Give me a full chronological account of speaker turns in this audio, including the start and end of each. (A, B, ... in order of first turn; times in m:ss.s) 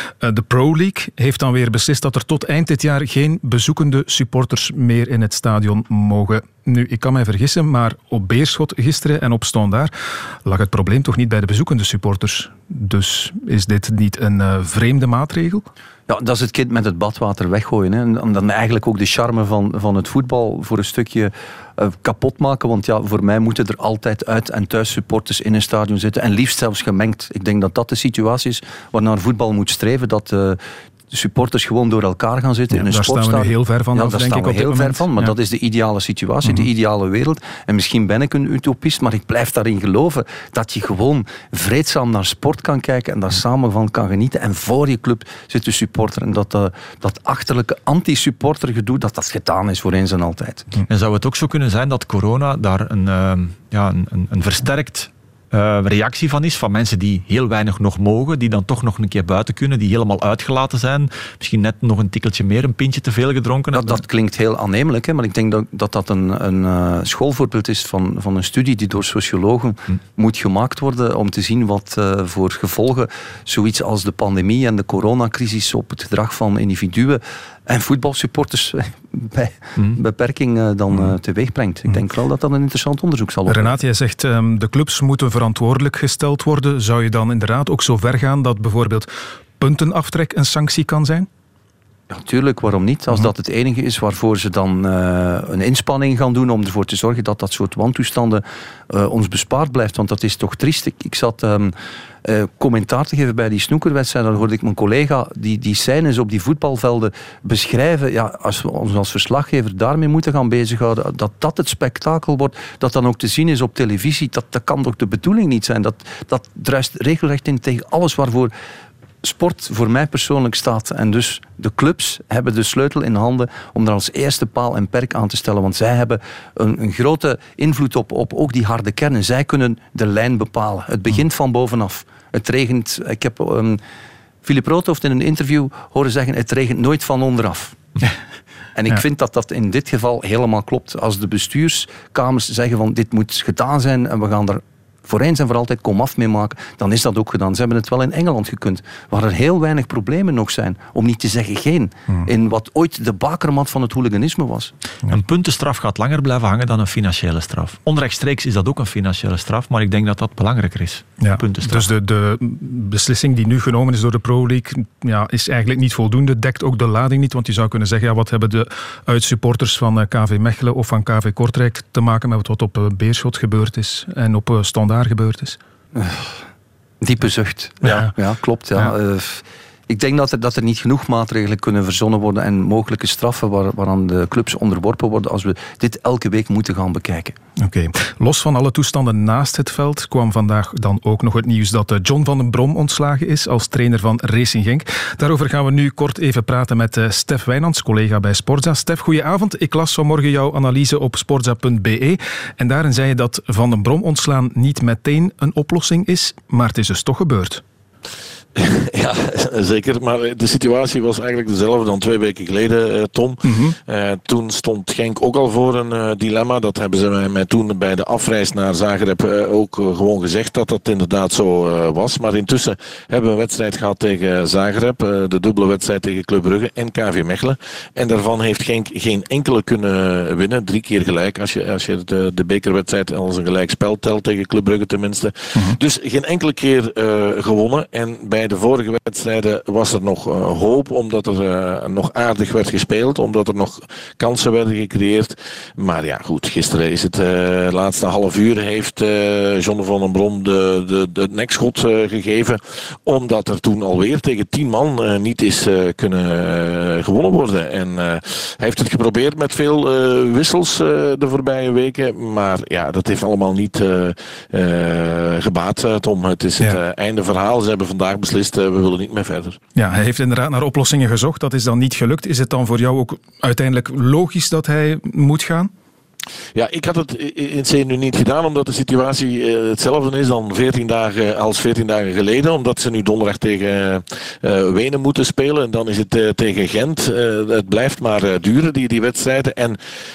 0:00.2-0:09.9 A
0:10.4-0:15.6 A
0:16.1-0:30.6 B
0:31.1-0:50.7 B
0:32.7-0:35.3 A
0:50.9-1:04.0 C
1:03.7-1:23.8 B
1:23.5-1:31.3 A
1:32.1-1:41.7 B
1:42.2-1:58.5 B
1:59.2-2:13.8 B
2:14.4-2:17.8 B
2:18.7-2:34.7 B
2:35.1-2:41.9 C
2:41.2-2:55.6 A
2:55.9-2:56.3 B
2:57.0-3:07.4 B
2:57.8-2:58.1 A
3:07.6-3:27.6 A
3:28.6-4:29.6 D
3:33.4-3:33.8 A
4:29.8-4:35.7 A
4:36.5-4:49.8 D